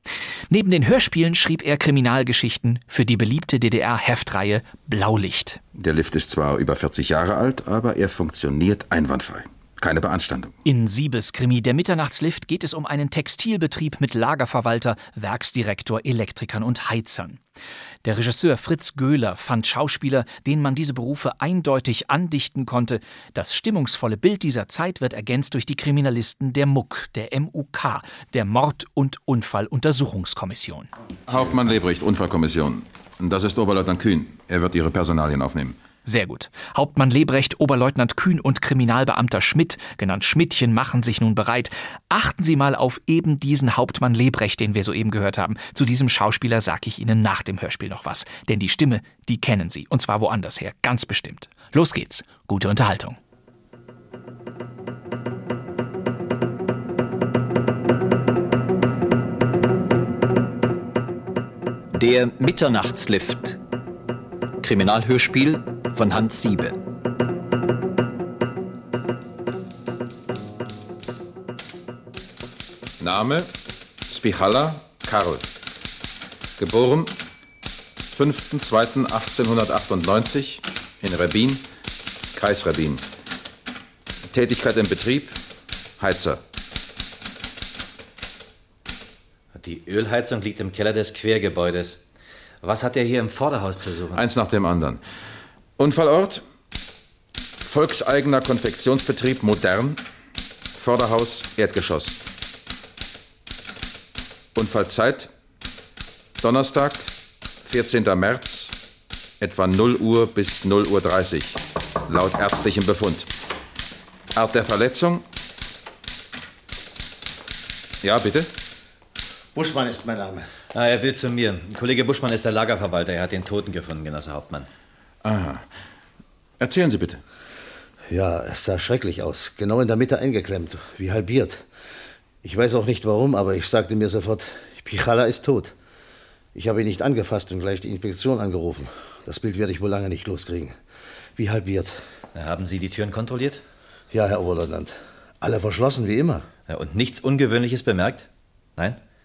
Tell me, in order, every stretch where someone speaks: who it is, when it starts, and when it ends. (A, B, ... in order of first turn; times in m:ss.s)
0:00.5-0:05.6 A
0:05.8-0:10.6 B
0:10.6-0:17.4 A
0:18.0-0:30.9 A
0:31.3-0:35.8 B
0:36.0-0:53.2 A
1:01.9-1:03.6 C
1:04.6-1:06.8 C
1:13.0-1:13.5 B
1:14.1-1:15.5 B
1:16.6-1:17.2 B
1:18.1-1:21.6 B
1:22.3-1:23.0 B
1:24.3-1:25.4 B
1:26.0-1:26.4 B
1:29.6-1:32.0 D
1:32.6-1:34.2 D
1:34.1-1:35.0 B
1:35.8-1:36.4 B
1:37.6-1:40.0 B
1:40.8-1:42.2 B
1:44.6-1:45.3 B
1:46.4-1:47.1 B
1:47.6-1:48.7 B
1:49.4-1:53.3 B
1:54.3-1:55.2 B
1:58.0-1:58.5 B
1:59.6-2:00.4 E
2:00.7-2:04.7 D
2:05.2-2:05.6 B
2:06.6-2:07.2 B
2:08.1-2:11.6 E
2:12.4-2:15.7 E
2:16.6-2:20.8 E
2:21.4-2:22.0 E
2:22.3-2:23.6 D
2:24.1-2:26.5 E
2:26.6-2:29.0 D